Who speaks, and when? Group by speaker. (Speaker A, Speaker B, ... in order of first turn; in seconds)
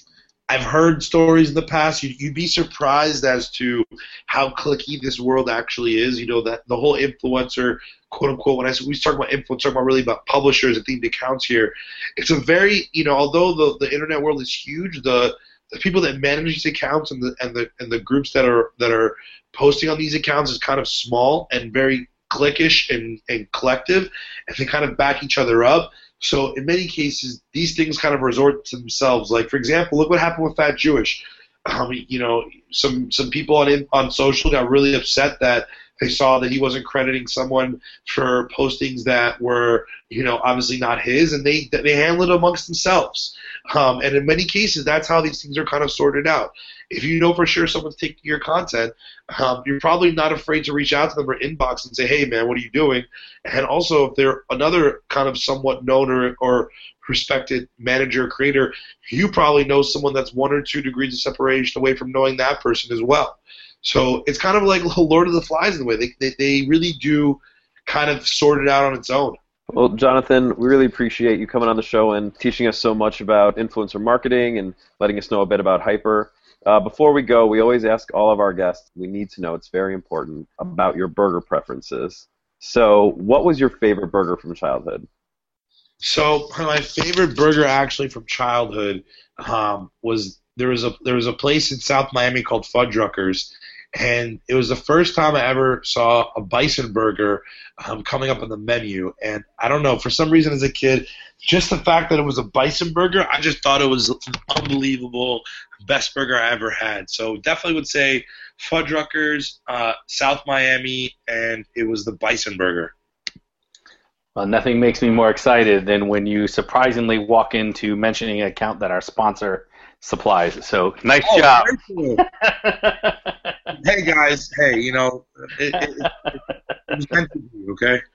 Speaker A: 0.5-69.4, 86.0-112.9, 121.2-122.2, 123.8-126.3, 126.9-128.0
Speaker B: 69.7-85.1
Speaker C: 114.3-123.5, 125.8-126.3